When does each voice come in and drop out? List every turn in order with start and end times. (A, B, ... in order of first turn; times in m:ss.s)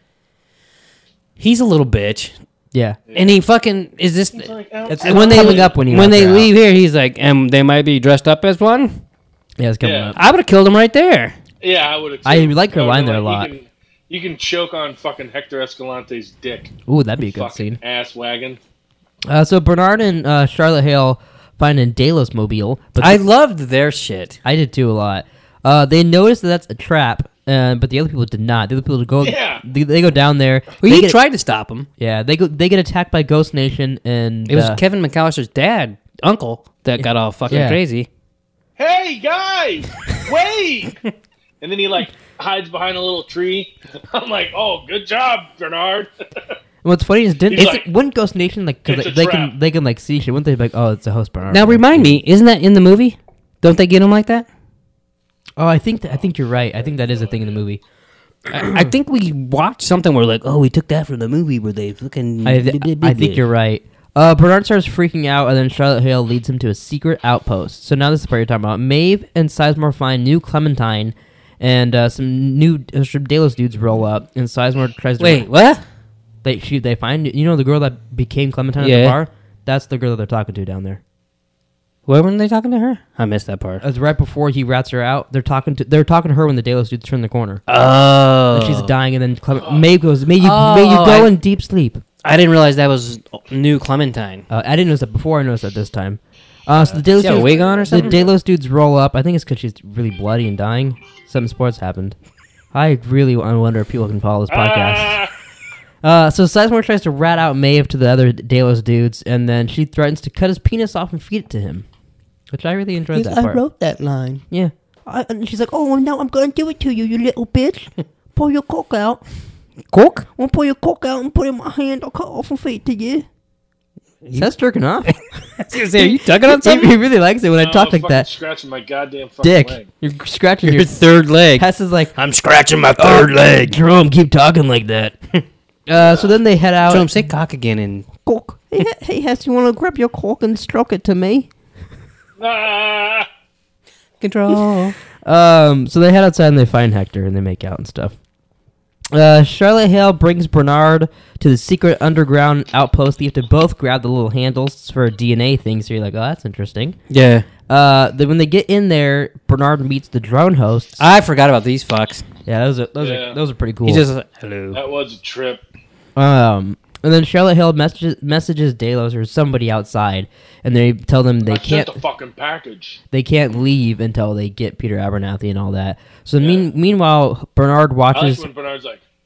0:01.4-0:02.3 A
0:02.7-0:03.0 B
0:03.1-0:03.4 C
0:03.1-0:09.0 A
0:04.3-0:05.7 C
0:04.9-0:06.5 B
0:09.6-0:10.2 B
0:09.8-0:10.1 C
0:10.2-0:11.4 A
0:11.6-0:18.6 C
0:12.2-0:13.5 B
0:16.9-0:17.8 B
0:19.2-0:23.2 B
0:23.0-0:24.4 A
0:24.4-0:31.2 B
0:29.2-0:29.6 C
0:30.8-0:31.9 A
0:32.0-0:34.8 B
0:34.5-0:38.1 A
0:37.0-0:37.8 B
0:38.8-0:41.0 C
0:41.6-0:46.6 C
0:46.8-0:52.2 B
0:47.5-0:47.8 C
0:48.8-0:49.5 C
0:51.5-0:54.5 A
0:55.6-0:57.8 B
0:56.9-0:57.4 C
0:58.5-1:03.4 A
0:58.6-0:58.9 B
1:02.4-1:15.5 B
1:15.2-1:15.8 A
1:16.4-1:21.0 B
1:18.8-1:19.2 A
1:22.1-1:23.8 A
1:23.8-1:27.6 B
1:27.7-1:28.9 A
1:28.5-1:32.0 B
1:29.6-1:29.8 C
1:30.4-1:31.3 A
1:32.2-1:34.4 A
1:34.5-1:42.2 B
1:36.8-1:38.2 A
1:37.2-1:38.3 C
1:42.7-1:45.2 B
1:44.5-1:45.3 C
1:46.0-1:51.8 B
1:52.5-1:53.6 B
1:53.1-1:54.4 A
1:54.5-1:59.2 B
1:59.9-2:00.2 A
2:00.4-2:03.2 B
2:04.2-2:04.5 A
2:04.4-2:08.3 B
2:05.1-2:06.9 A
2:07.6-2:09.9 C
2:09.4-2:11.0 B
2:10.6-2:13.8 A
2:11.6-2:12.1 B
2:13.0-2:17.2 B
2:16.9-2:18.1 A
2:18.2-2:21.5 B
2:22.4-2:23.3 C
2:24.2-2:25.0 A
2:25.2-2:28.1 B
2:29.1-2:37.0 B
2:37.1-2:37.5 A
2:37.7-2:41.0 B
2:41.0-2:42.2 A
2:42.4-2:44.0 B
2:43.0-2:43.4 C
2:43.8-2:44.8 A
2:44.7-2:45.6 C
2:46.2-2:52.0 B
2:51.4-2:53.0 C
2:53.1-2:58.5 B
2:56.4-2:56.7 C
2:58.1-2:59.0 C